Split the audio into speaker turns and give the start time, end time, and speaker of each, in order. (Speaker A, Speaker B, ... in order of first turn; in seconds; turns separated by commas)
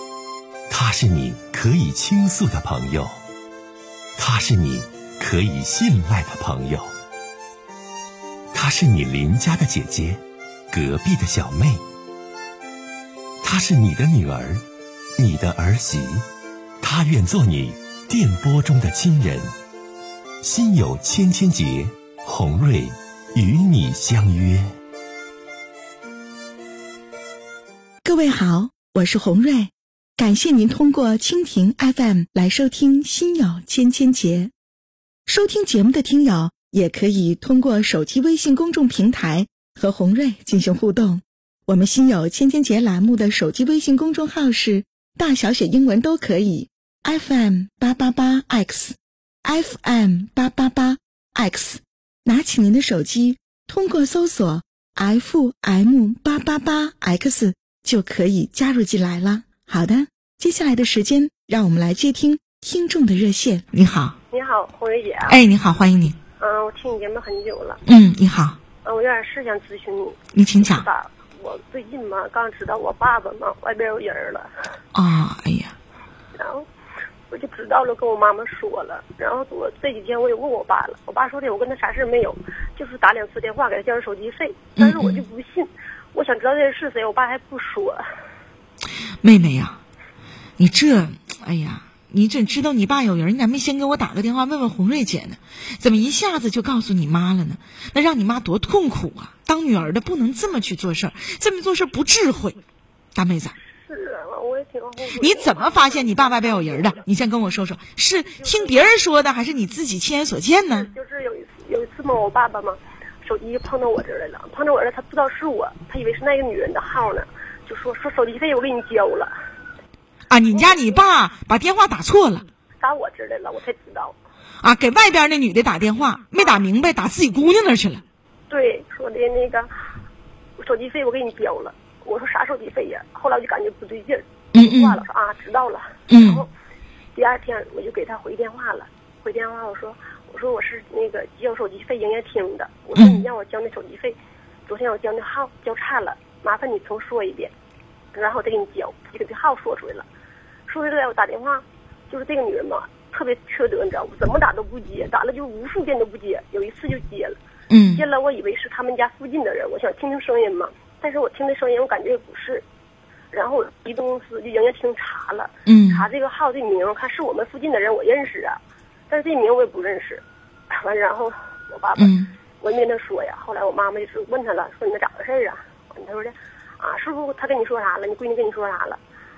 Speaker A: 0.7-3.1, Speaker A: 4.2-6.9, Speaker A: 8.5-11.8, Speaker A: 13.4-14.6, Speaker A: 15.2-16.2, Speaker A: 16.8-19.4, Speaker A: 20.4-24.7, Speaker B: 28.0-34.5, Speaker B: 35.3-64.2, Speaker C: 64.3-65.4, Speaker B: 65.3-66.2, Speaker C: 66.4-67.8, Speaker B: 67.9-68.6, Speaker C: 68.8-74.5, Speaker B: 70.3-70.9, Speaker B: 74.9-75.8, Speaker C: 76.4-76.7, Speaker C: 77.3-88.0, Speaker B: 84.8-85.2, Speaker B: 89.2-89.8, Speaker B: 90.6-102.6, Speaker B: 103.1-103.5, Speaker C: 103.7-107.0, Speaker B: 105.2-110.9, Speaker C: 108.4-108.9, Speaker C: 110.7-119.3, Speaker B: 120.3-122.5, Speaker C: 120.5-120.9, Speaker C: 122.8-124.2, Speaker B: 124.6-128.0, Speaker C: 126.4-126.6, Speaker C: 128.5-129.7, Speaker C: 130.6-136.5, Speaker B: 134.5-135.0, Speaker B: 136.1-136.4, Speaker C: 137.2-147.5, Speaker B: 143.0-143.2, Speaker C: 148.1-150.1, Speaker C: 150.7-157.4, Speaker B: 157.7-158.0, Speaker C: 157.9-162.7, Speaker C: 163.3-179.0, Speaker B: 165.7-166.1, Speaker B: 172.0-172.3